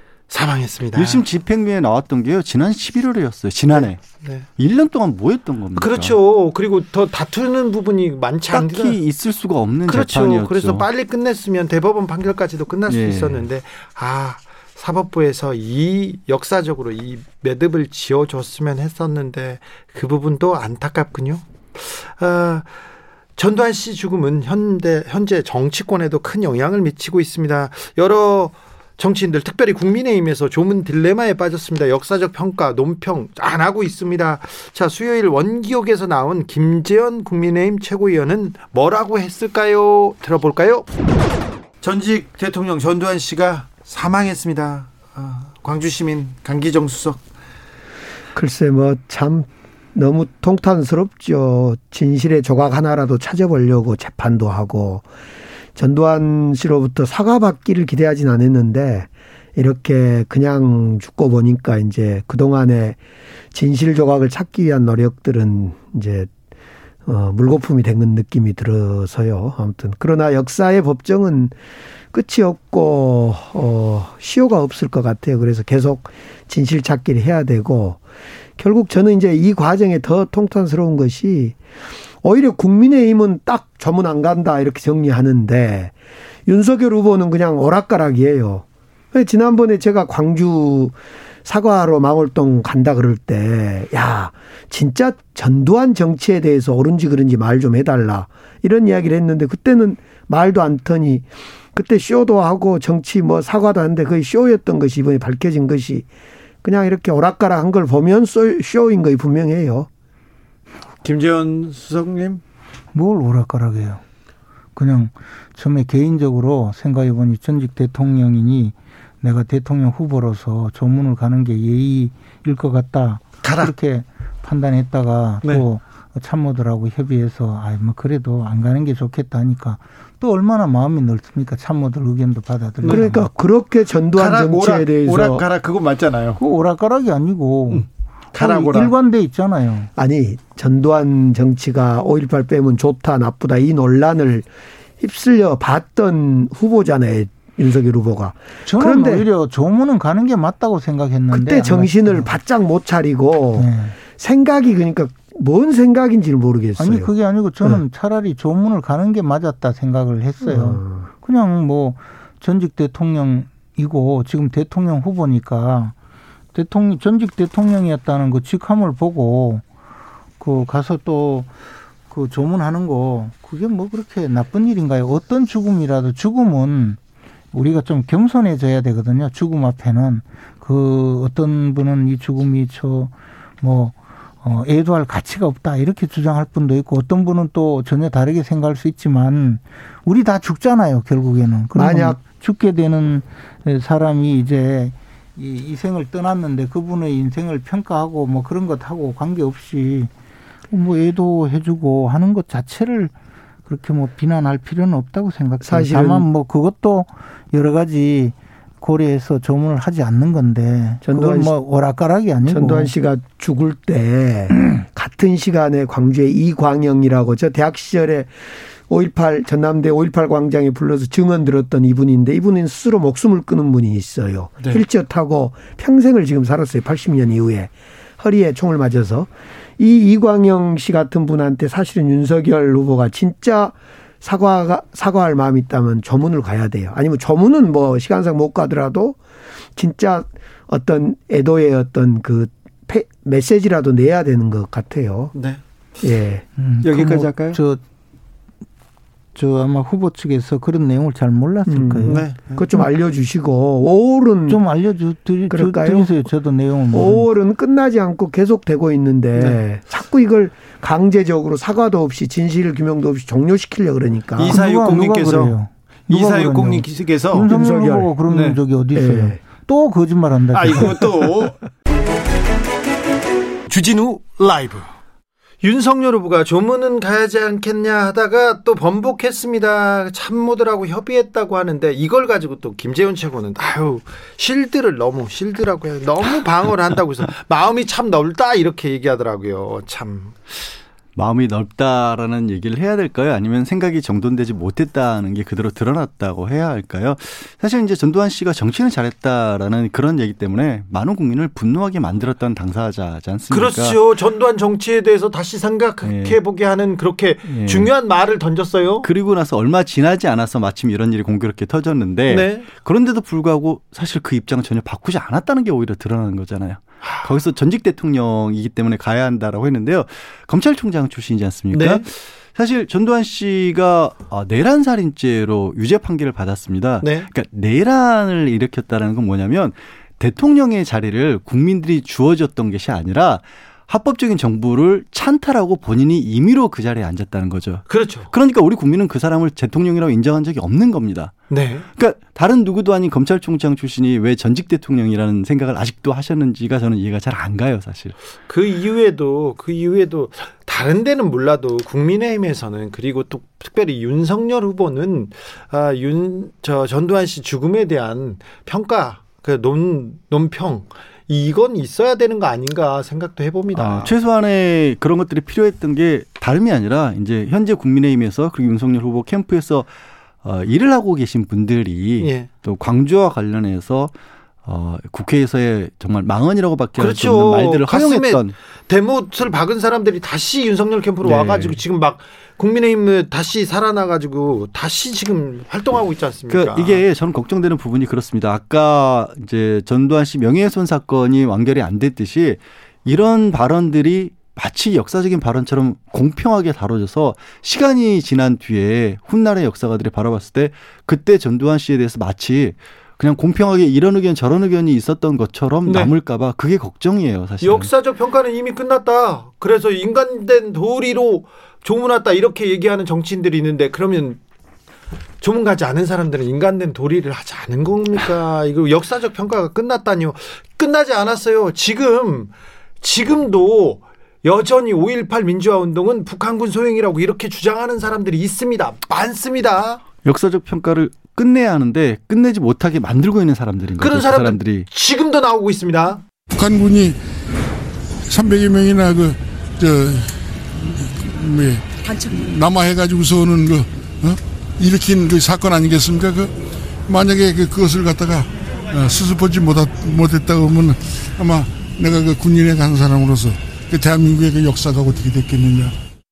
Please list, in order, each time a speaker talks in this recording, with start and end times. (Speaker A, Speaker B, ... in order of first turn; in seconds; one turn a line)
Speaker A: 0.3-1.2
Speaker B: 0.9-4.0
Speaker A: 3.7-4.4
Speaker B: 4.6-6.2
Speaker A: 5.8-9.0
Speaker B: 8.5-10.8
Speaker A: 9.9-22.7
Speaker B: 12.9-13.4
Speaker A: 23.4-40.9
Speaker A: 41.8-47.2
Speaker C: 48.3-55.0
Speaker C: 55.8-63.0
Speaker C: 63.5-66.3
Speaker C: 67.0-71.5
Speaker C: 72.1-78.0
Speaker C: 78.6-81.6
Speaker C: 82.2-85.9
Speaker C: 86.5-90.9
Speaker C: 91.4-106.1
Speaker C: 106.6-109.9
Speaker A: 111.0-112.4
Speaker D: 112.9-114.0
Speaker D: 114.8-133.3
Speaker A: 123.4-123.7
Speaker A: 132.8-133.2
Speaker C: 132.8-135.4
Speaker A: 134.1-136.4
Speaker D: 136.4-139.9
Speaker A: 137.7-138.9
Speaker C: 139.9-144.5
Speaker C: 145.0-149.3
Speaker D: 148.7-152.4
Speaker C: 151.3-157.1
Speaker D: 153.6-153.9
Speaker D: 156.8-165.9
Speaker C: 160.4-161.1
Speaker D: 166.5-169.6
Speaker D: 170.4-171.5
Speaker D: 172.1-177.0
Speaker D: 177.5-200.1
Speaker C: 191.7-192.2
Speaker D: 200.7-203.1
Speaker D: 203.7-212.9
Speaker C: 205.6-206.3
Speaker C: 211.0-211.5
Speaker C: 212.5-218.3
Speaker C: 218.9-239.2
Speaker C: 239.8-245.3
Speaker A: 245.3-245.6
Speaker C: 246.0-246.4
Speaker D: 246.6-247.8
Speaker A: 246.8-247.6
Speaker D: 249.3-252.4
Speaker C: 251.7-254.6
Speaker A: 252.1-252.6
Speaker D: 254.5-257.2
Speaker C: 255.5-256.1
Speaker C: 256.9-264.6
Speaker A: 264.4-265.6
Speaker D: 264.4-271.2
Speaker A: 266.1-267.5
Speaker C: 267.5-268.1
Speaker A: 268.3-268.6
Speaker C: 268.9-269.4
Speaker A: 270.5-271.6
Speaker A: 273.7-274.9
Speaker A: 275.6-290.4
Speaker B: 291.1-304.0
Speaker A: 303.5-309.1
Speaker B: 306.0-306.4
Speaker B: 307.4-307.9
Speaker B: 309.0-341.4
Speaker A: 312.3-312.7
Speaker A: 321.7-322.1
Speaker A: 327.0-327.3
Speaker A: 337.9-338.3
Speaker A: 341.5-341.9
Speaker B: 342.0-348.1
Speaker A: 348.5-364.1
Speaker B: 363.7-369.9
Speaker B: 370.4-374.1
Speaker A: 372.2-372.5
Speaker B: 374.6-378.6
Speaker A: 377.0-387.0
Speaker B: 381.2-381.8
Speaker B: 386.5-407.9
Speaker A: 405.9-406.1
Speaker A: 407.6-414.4
Speaker A: 415.4-430.0
Speaker B: 430.2-434.9
Speaker A: 434.0-436.2
Speaker E: 436.5-437.2
Speaker E: 438.3-456.0